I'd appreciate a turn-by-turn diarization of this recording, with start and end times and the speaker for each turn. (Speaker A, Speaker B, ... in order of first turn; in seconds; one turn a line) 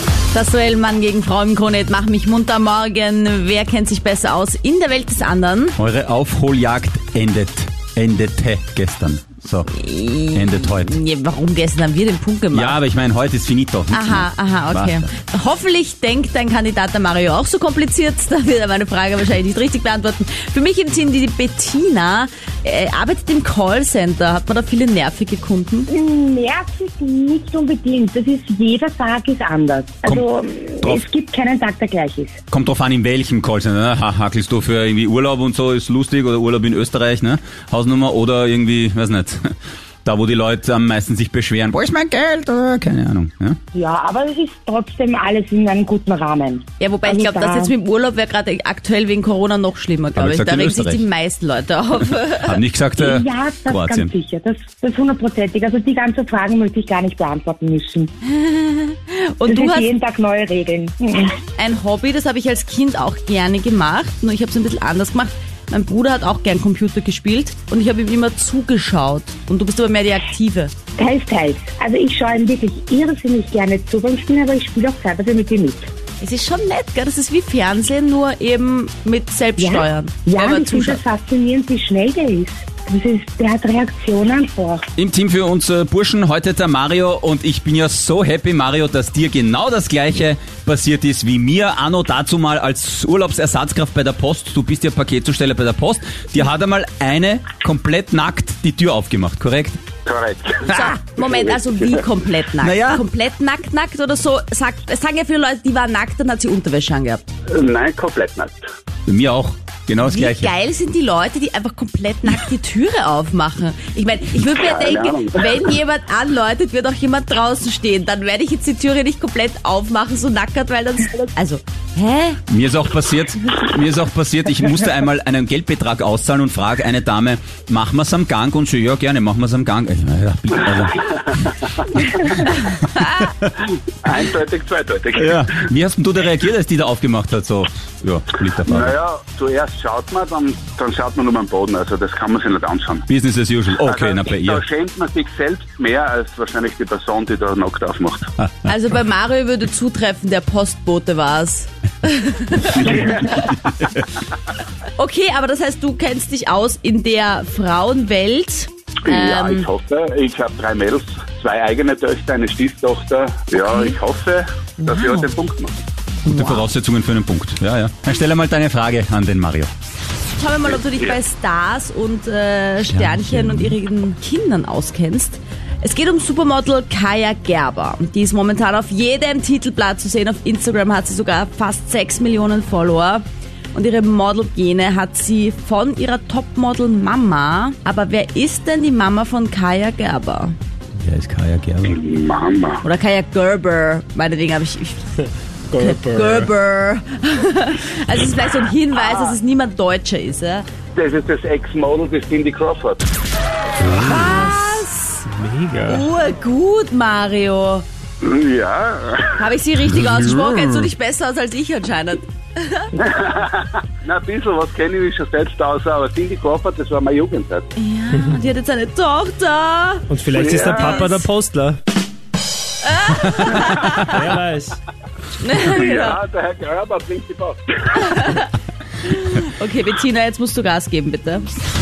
Speaker A: 0.3-5.8
Speaker B: 5.8-9.7
Speaker A: 9.7-12.8
Speaker B: 10.3-10.9
Speaker B: 12.5-15.1
Speaker A: 13.9-25.9
Speaker C: 25.9-32.4
Speaker B: 32.5-39.5
Speaker B: 40.0-43.6
Speaker C: 43.7-47.7
Speaker A: 46.8-52.6
Speaker B: 50.1-51.0
Speaker B: 52.4-54.1
Speaker C: 53.0-58.1
Speaker A: 58.2-59.9
Speaker C: 59.5-61.3
Speaker A: 61.6-70.7
Speaker C: 71.0-75.9
Speaker A: 76.2-81.0
Speaker C: 79.6-84.8
Speaker B: 85.0-99.8
Speaker D: 100.0-102.0
Speaker A: 100.7-107.2
Speaker B: 100.7-101.0
Speaker B: 102.6-103.0
Speaker D: 107.5-108.6
Speaker B: 109.1-110.5
Speaker A: 110.0-122.4
Speaker D: 114.5-115.7
Speaker B: 122.5-133.5
Speaker D: 134.0-135.5
Speaker B: 135.1-138.9
Speaker D: 138.7-143.1
Speaker B: 143.1-144.6
Speaker D: 143.8-148.3
Speaker A: 148.6-153.5
Speaker D: 152.8-153.3
Speaker B: 153.3-153.8
Speaker A: 155.0-159.7
Speaker D: 159.1-165.8
Speaker A: 163.5-164.0
Speaker A: 164.8-165.3
Speaker A: 166.2-166.7
Speaker B: 166.2-169.7
Speaker A: 170.3-190.5
Speaker B: 172.9-173.7
Speaker B: 191.0-192.0
Speaker D: 191.8-192.8
Speaker A: 192.8-195.0
Speaker E: 195.7-196.5
Speaker A: 195.7-200.7
Speaker D: 198.9-199.4
Speaker D: 200.9-203.1
Speaker E: 203.8-206.1
Speaker A: 203.9-205.2
Speaker A: 205.8-207.8
Speaker D: 208.2-209.4
Speaker A: 209.4-212.9
Speaker D: 213.0-217.7
Speaker A: 217.8-221.2
Speaker E: 220.1-221.8
Speaker D: 220.3-221.0
Speaker A: 222.8-224.2
Speaker B: 223.2-224.1
Speaker E: 224.0-224.8
Speaker A: 225.4-226.2
Speaker D: 225.7-228.2
Speaker A: 227.9-228.5
Speaker A: 229.0-231.6